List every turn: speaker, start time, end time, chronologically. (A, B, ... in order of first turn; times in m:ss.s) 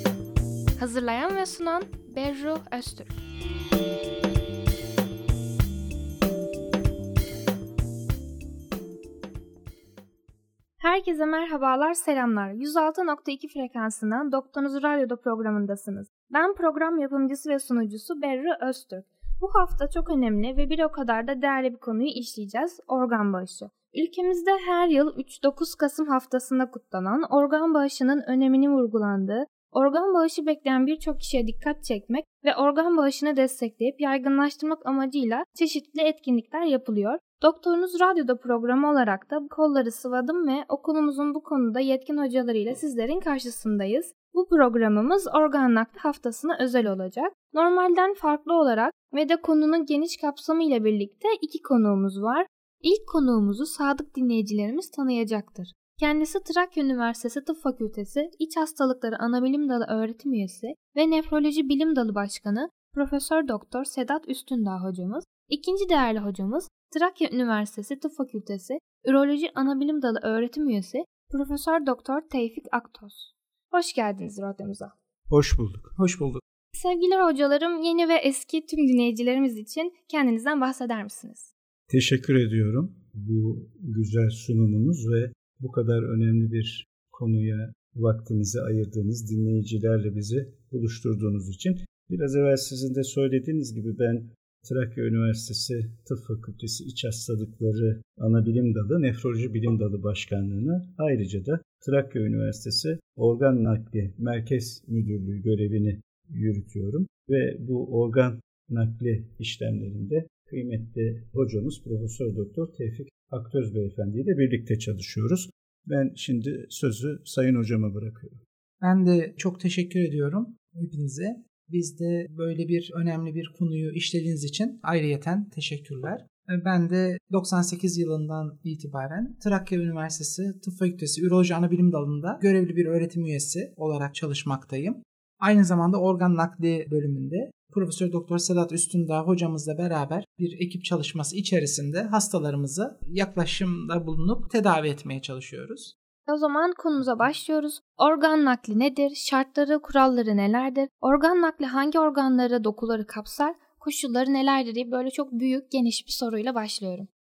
0:00.8-0:03.1 A
0:10.8-1:14.9 A
1:15.3-1:16.0 B
1:16.0-1:16.4 C
1:16.7-1:21.5 A
1:21.9-1:58.4 B
1:58.8-2:25.9 C
2:26.3-2:37.1 A